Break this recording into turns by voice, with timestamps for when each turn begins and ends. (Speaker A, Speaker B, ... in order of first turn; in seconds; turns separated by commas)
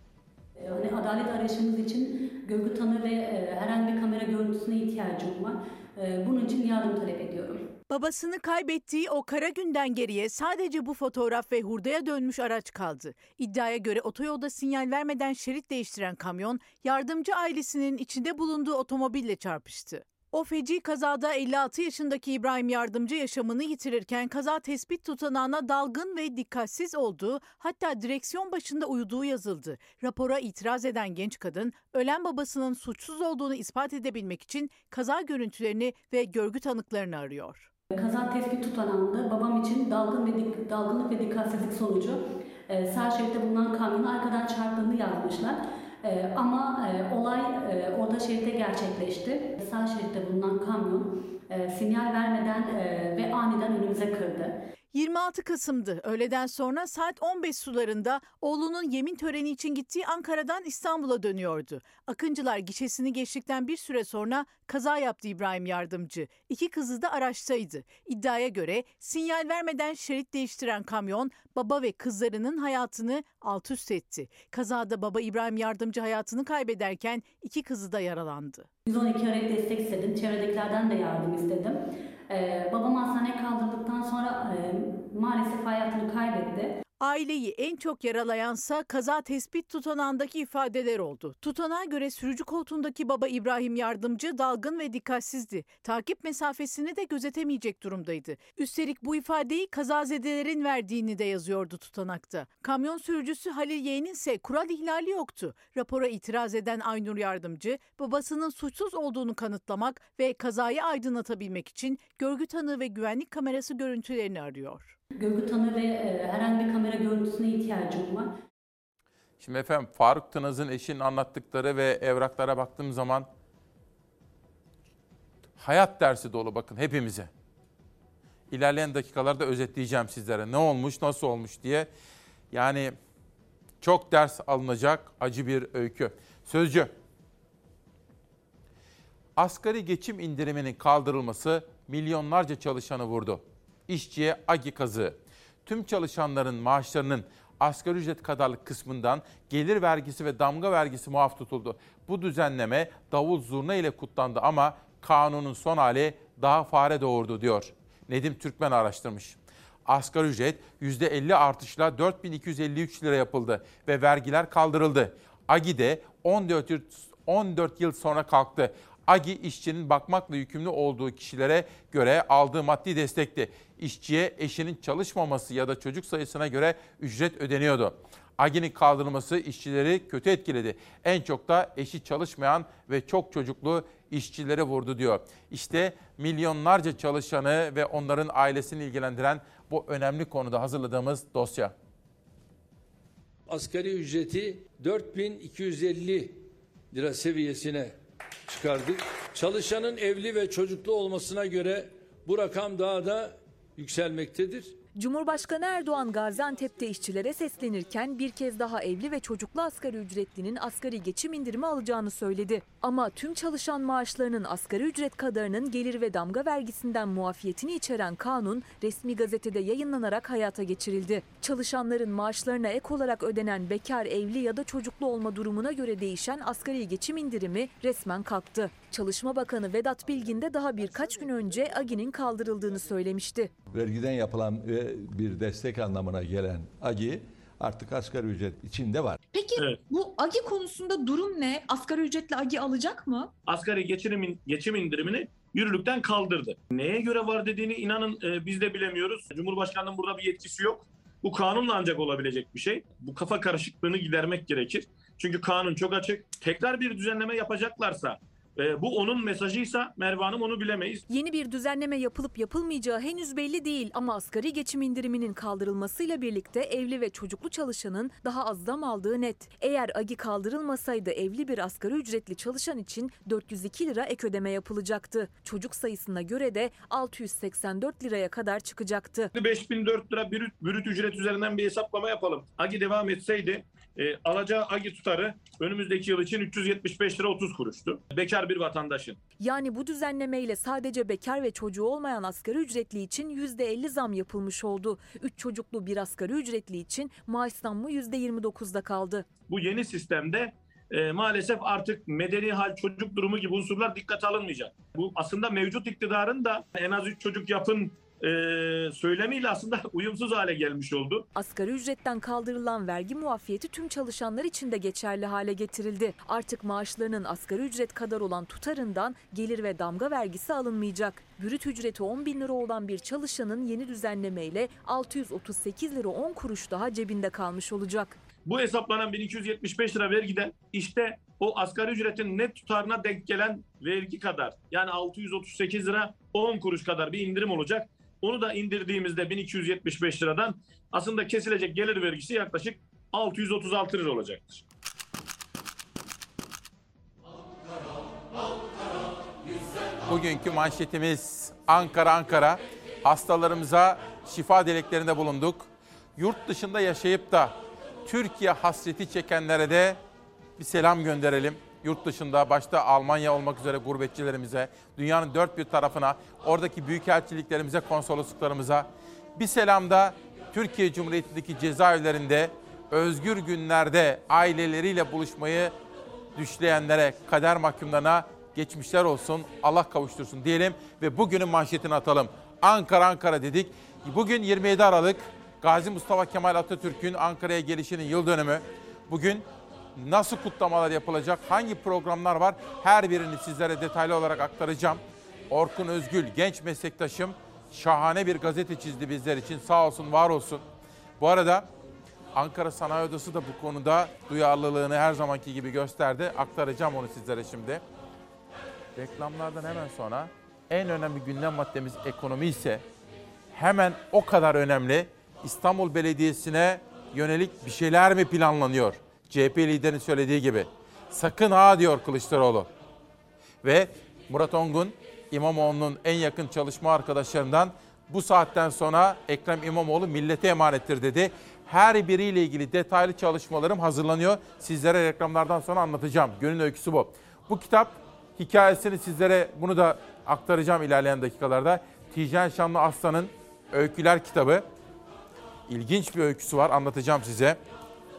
Speaker A: 0.6-7.7, Speaker B: 7.9-37.7, Speaker A: 37.9-54.5, Speaker B: 54.9-78.7, Speaker A: 78.9-86.7, Speaker B: 87.0-115.0, Speaker A: 115.2-118.3, Speaker C: 119.4-123.3, Speaker C: 125.6-127.3, Speaker C: 128.5-131.9, Speaker C: 132.5-132.9, Speaker C: 133.8-136.9, Speaker C: 139.4-191.7, Speaker D: 193.5-198.0, Speaker D: 198.5-204.8, Speaker E: 204.9-233.5, Speaker F: 233.7-239.2, Speaker G: 239.3-243.3, Speaker H: 243.5-261.0, Speaker E: 261.1-279.3, Speaker H: 279.4-289.2, Speaker E: 289.4-299.3, Speaker H: 299.5-311.2, Speaker E: 311.4-328.2, Speaker H: 328.5-344.6, Speaker C: 350.1-360.0, Speaker C: 360.6-375.7, Speaker C: 376.4-400.6, Speaker C: 401.2-401.7, Speaker C: 402.3-407.8, Speaker C: 408.9-412.8, Speaker C: 413.5-422.7, Speaker C: 423.6-444.6, Speaker C: 445.7-447.6